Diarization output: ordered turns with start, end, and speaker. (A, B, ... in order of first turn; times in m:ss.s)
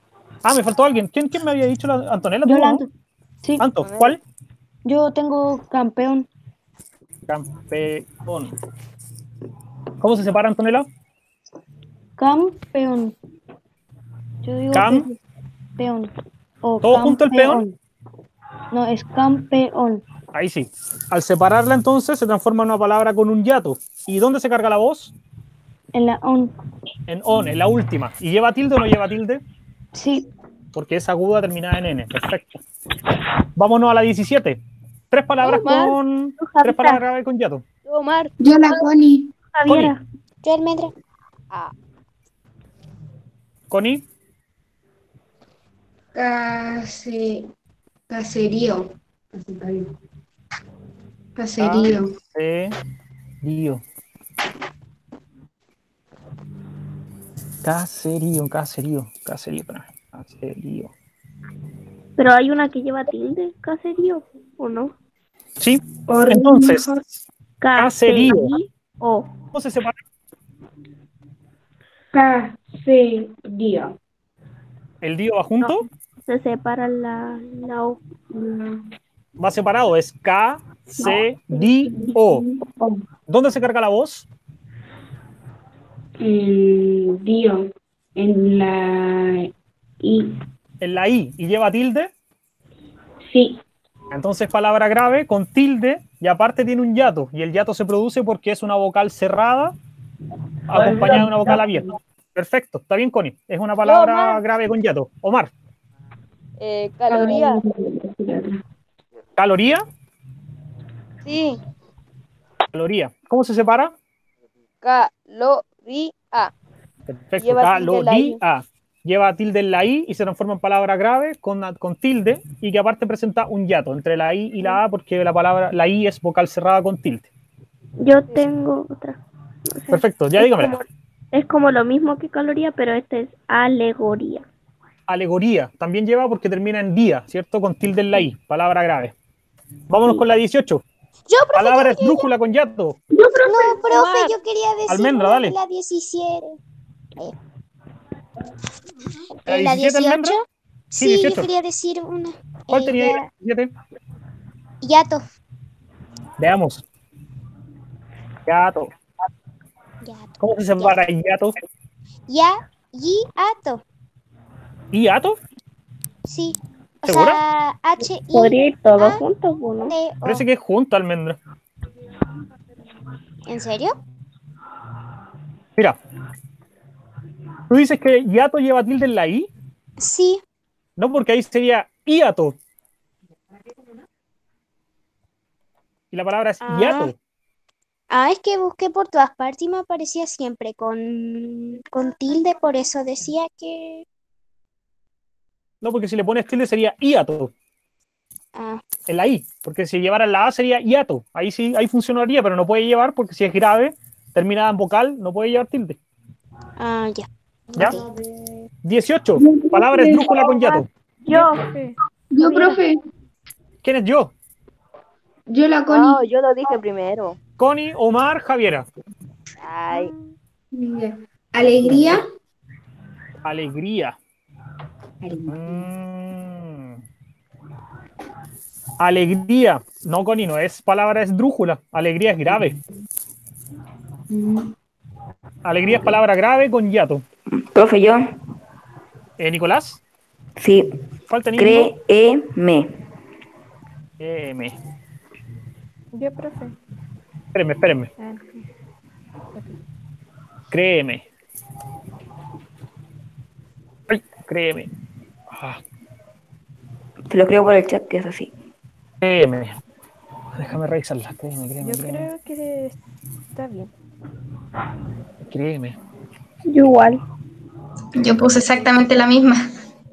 0:00.4-0:02.8 A
0:02.4-0:02.9 B
0:03.6-0:04.2 A
0:03.8-0:04.2 C
0:04.8-0:06.3 B
0:07.3-0:08.5 A
0:10.0-0:10.9 A
0:12.2-0:13.1 B
0:14.4-0:15.2 B
0:14.7-0:15.1 A
0:15.8-0:16.1 B
0:16.6-0:17.8 B
0:16.8-0:17.6 A
0:18.7-0:20.0 B
0:20.3-0:25.1 A
0:25.9-0:26.5 B
0:27.1-0:29.4 A
0:29.9-0:30.2 B
0:30.7-0:32.6 A
0:33.6-0:37.6 A
0:35.4-0:35.9 C
0:36.4-0:37.0 D
0:37.9-0:38.3 C
0:38.4-0:39.3 E
0:39.5-0:40.0 D
0:39.7-0:39.9 A
0:40.4-0:40.9 F
0:43.7-0:44.0 A
0:46.1-0:47.5 E
0:48.1-0:49.9 E
0:51.4-0:52.1 E
0:51.6-0:52.7 A
0:53.4-0:53.8 A
0:57.6-1:00.9 A
1:02.2-1:04.9 D
1:05.6-1:07.2 A
1:06.1-1:07.0 E
1:07.6-1:09.3 D
1:07.8-1:08.5 A
1:09.5-1:10.0 A
1:12.1-1:13.9 E
1:15.0-1:15.9 A
1:15.6-1:18.0 D
1:18.3-1:18.8 E
1:19.4-1:22.4 A
1:21.8-1:22.9 E
1:23.3-1:24.3 A
1:26.2-1:29.5 E
1:30.0-1:30.3 E
1:30.8-1:32.1 A
1:33.3-1:33.6 E
1:34.1-1:39.7 A
1:40.7-1:45.5 A
1:40.7-1:41.8 E
1:43.8-1:44.4 C
1:46.6-1:47.6 C
1:47.1-1:48.6 E
1:49.4-1:49.8 A
1:51.2-1:51.6 C
1:52.7-1:53.9 A
1:54.8-1:56.5 C
1:57.1-2:07.3 A
1:57.4-1:58.4 C
2:08.0-2:09.2 D
2:09.7-2:14.4 D
2:09.9-2:10.8 A
2:15.1-2:19.1 A
2:19.9-2:20.8 A
2:21.3-2:22.3 F
2:21.5-2:23.0 A
2:23.1-2:24.0 D
2:23.4-2:26.6 F
2:24.9-2:25.5 A
2:29.4-2:33.2 F
2:29.5-2:30.3 A
2:31.0-2:31.5 A
2:32.7-2:33.7 A
2:34.8-2:35.3 F
2:36.4-2:36.8 A
2:38.5-2:38.9 A
2:40.0-2:41.0 F
2:40.4-2:41.6 A
2:42.3-2:43.8 F
2:44.9-2:45.4 A
2:46.2-2:49.2 F
2:47.0-2:47.4 A
2:48.0-2:49.9 D
2:49.9-2:50.4 F
2:50.2-2:51.4 A
2:53.4-2:54.0 F
2:57.7-2:59.5 A
3:00.0-3:00.4 F
3:01.0-3:02.6 A
3:06.1-3:07.1 A
3:08.1-3:14.0 F
3:15.8-3:17.5 A
3:18.5-3:18.8 F
3:19.1-3:26.0 A
3:26.8-3:28.0 F
3:28.8-3:30.9 A
3:29.4-3:30.4 E
3:31.2-3:31.6 D
3:31.3-3:32.8 G
3:32.3-3:33.0 E
3:33.8-3:34.3 A
3:35.5-3:36.2 E
3:35.9-3:37.4 C
3:37.6-3:38.9 A
3:39.6-3:40.1 C
3:40.7-3:42.2 E
3:41.9-3:42.2 A
3:43.4-3:44.2 A
3:45.2-3:45.9 E
3:45.5-3:47.0 A
3:49.0-3:52.8 A
3:54.3-3:54.7 E
3:55.6-3:57.2 A
3:57.6-3:58.2 H
3:59.4-4:00.0 A
4:00.6-4:00.9 H
4:01.3-4:01.9 A
4:01.6-4:02.9 H
4:04.2-4:04.8 A
4:06.1-4:06.8 G
4:07.5-4:08.1 A
4:08.2-4:08.6 G
4:10.7-4:11.3 A
4:14.1-4:14.9 A
4:15.5-4:15.8 A
4:17.3-4:18.5 H
4:19.2-4:19.8 A
4:20.5-4:22.3 A
4:21.8-4:23.0 G
4:23.5-4:23.9 G
4:25.5-4:26.0 A
4:26.6-4:27.2 D
4:28.2-4:29.7 E